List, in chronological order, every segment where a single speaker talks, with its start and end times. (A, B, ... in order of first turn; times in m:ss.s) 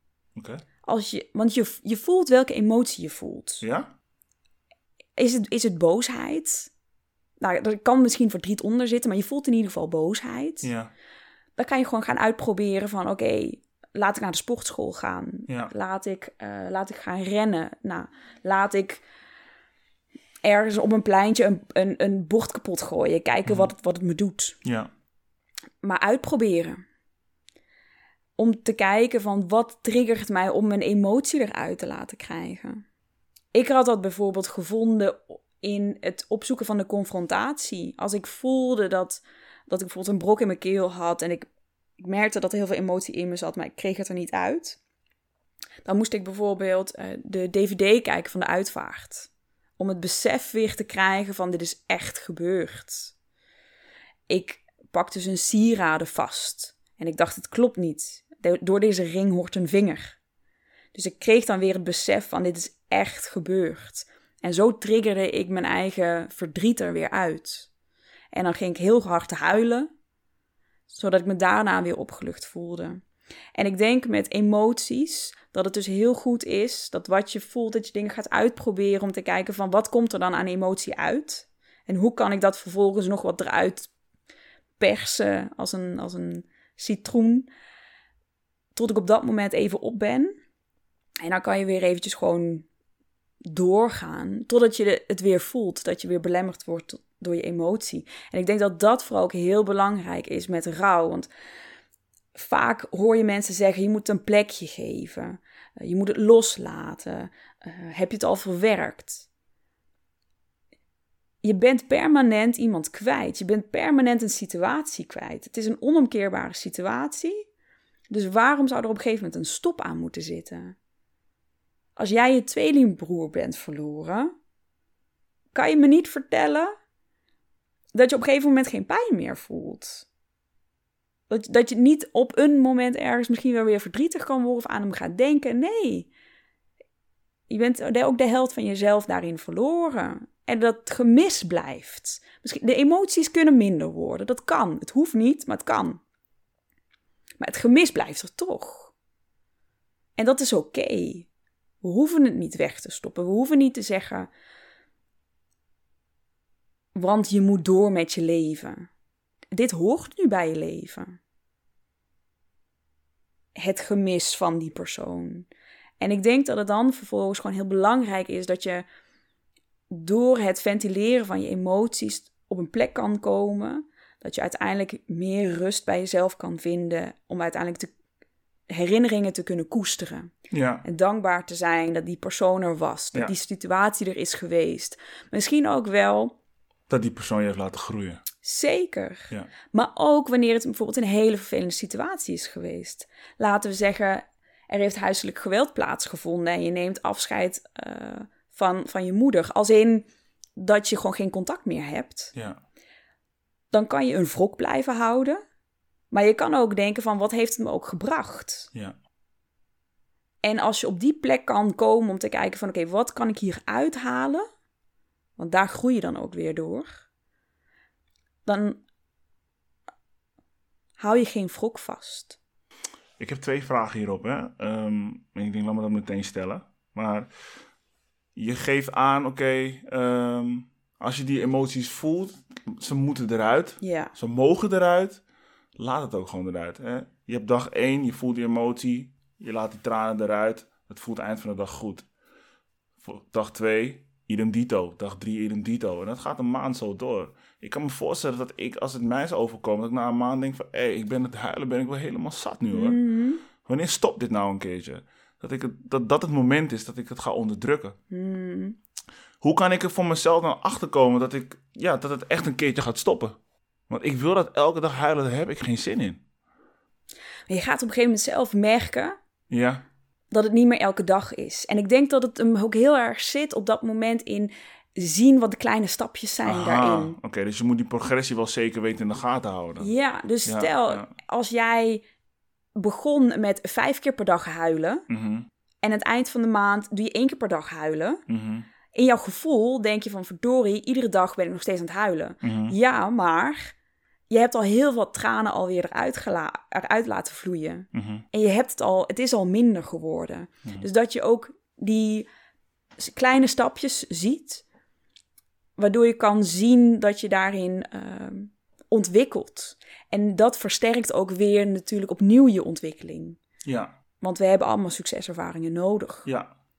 0:00.4-0:00.6 A
0:00.8-0:03.6 B
0:03.6-0:03.9 A
0:05.2-0:06.7 B
0:07.4-0:10.7 B
0:10.6-0:10.9 A
0:11.6-0:19.0 B
0:20.4-0:24.6 B
0:24.6-0:24.9 A
0:25.8-0:26.8 B
0:28.4-0:32.8 B
0:33.5-0:41.5 B
0:42.0-0:44.8 B
0:45.8-0:53.1 B
0:54.3-1:00.2 B
1:00.9-1:07.7 B
1:08.3-1:09.9 B
1:10.9-1:13.0 B
1:13.6-1:23.9 B
1:24.8-1:27.5 B
1:28.8-1:30.4 B
1:31.2-1:32.7 B
1:33.4-1:41.3 B
1:42.4-1:49.3 B
1:51.4-1:57.5 B
1:58.1-2:00.8 B
2:02.0-2:04.3 B
2:05.5-2:06.8 B
2:07.9-2:10.1 B
2:11.3-2:16.1 B
2:17.5-2:26.0 B
2:27.4-2:28.9 B
2:30.2-2:31.3 B
2:31.8-2:34.3 B
2:37.0-2:38.9 B
2:39.5-2:41.2 B
2:43.6-2:45.5 B
2:46.0-2:48.9 B
2:49.9-2:57.9 B
2:58.7-3:00.3 B
3:00.5-3:00.8 A
3:00.8-3:06.3 B
3:06.9-3:08.2 A
3:08.4-3:22.3 B
3:22.4-3:22.6 A
3:23.7-3:25.4 B
3:26.1-3:28.7 B
3:30.4-3:34.5 B
3:35.4-3:37.0 B
3:38.5-3:38.8 B
3:41.0-3:42.4 B
3:43.2-3:47.3 A
3:48.4-3:55.2 A
3:53.8-3:54.1 B
3:55.8-4:02.1 A
4:03.0-4:13.0 A
4:12.7-4:13.4 B
4:13.6-4:18.0 A
4:18.1-4:18.8 B
4:19.4-4:23.4 A
4:23.9-4:26.2 A
4:27.5-4:29.2 B
4:29.5-4:29.8 A
4:30.3-4:37.2 B
4:36.4-4:39.9 A
4:39.8-4:42.0 B
4:40.5-4:41.1 A
4:42.8-4:45.1 B
4:45.1-4:45.5 A
4:45.8-4:48.2 B
4:48.3-4:48.7 A
4:48.9-4:53.8 B
4:52.4-4:52.8 A
4:54.3-5:02.3 B
4:57.9-4:58.2 A
5:03.0-5:04.6 B
5:05.8-5:13.4 B
5:13.6-5:14.0 A
5:14.2-5:16.3 B
5:16.3-5:16.5 A